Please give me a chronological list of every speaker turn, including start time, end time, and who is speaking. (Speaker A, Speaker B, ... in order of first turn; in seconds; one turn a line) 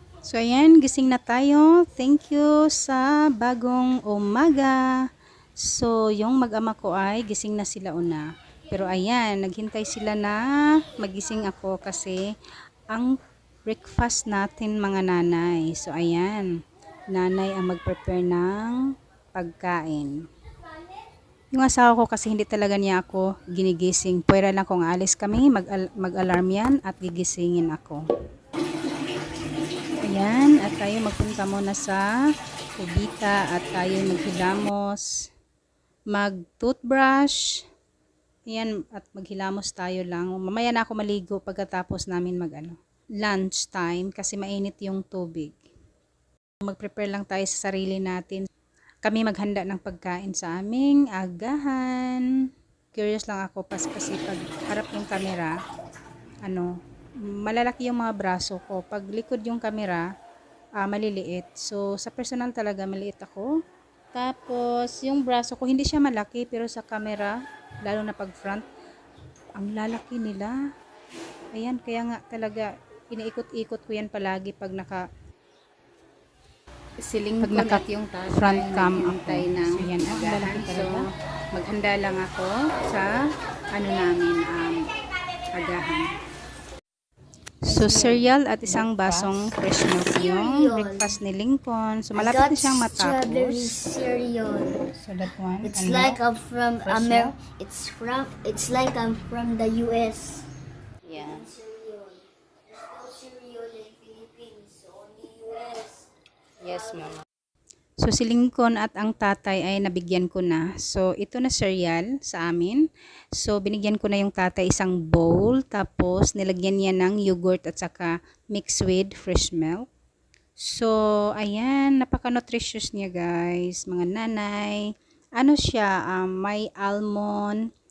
Speaker A: 0.2-5.0
Speaker A: 5.6-12.3
Speaker A: 12.9-16.5
Speaker A: 17.1-18.8
Speaker A: 19.4-20.2
Speaker A: 21.5-28.0
Speaker A: 30.1-32.1
Speaker A: 32.8-35.1
Speaker A: 36.1-37.6
Speaker A: 38.5-45.6
Speaker A: 46.6-48.4
Speaker A: 49.0-52.3
Speaker A: 53.0-55.5
Speaker A: 56.5-56.7
Speaker A: 57.3-60.0
Speaker A: 60.8-63.5
Speaker A: 64.1-68.7
Speaker A: 69.6-70.6
Speaker A: 71.5-75.1
Speaker B: 77.0-81.0
Speaker A: 77.4-83.1
Speaker A: 83.8-84.8
Speaker A: 85.5-86.1
Speaker A: 87.7-93.8
Speaker C: 87.7-88.9
Speaker C: 89.6-91.2
Speaker C: 92.2-94.9
Speaker A: 95.0-96.2
Speaker C: 95.6-100.5
Speaker A: 96.8-97.4
Speaker A: 101.1-101.5
Speaker C: 101.1-106.1
Speaker A: 106.6-107.2
Speaker C: 106.7-107.1
Speaker A: 108.0-112.8
Speaker A: 113.4-119.9
Speaker A: 120.6-124.8
Speaker A: 125.4-127.6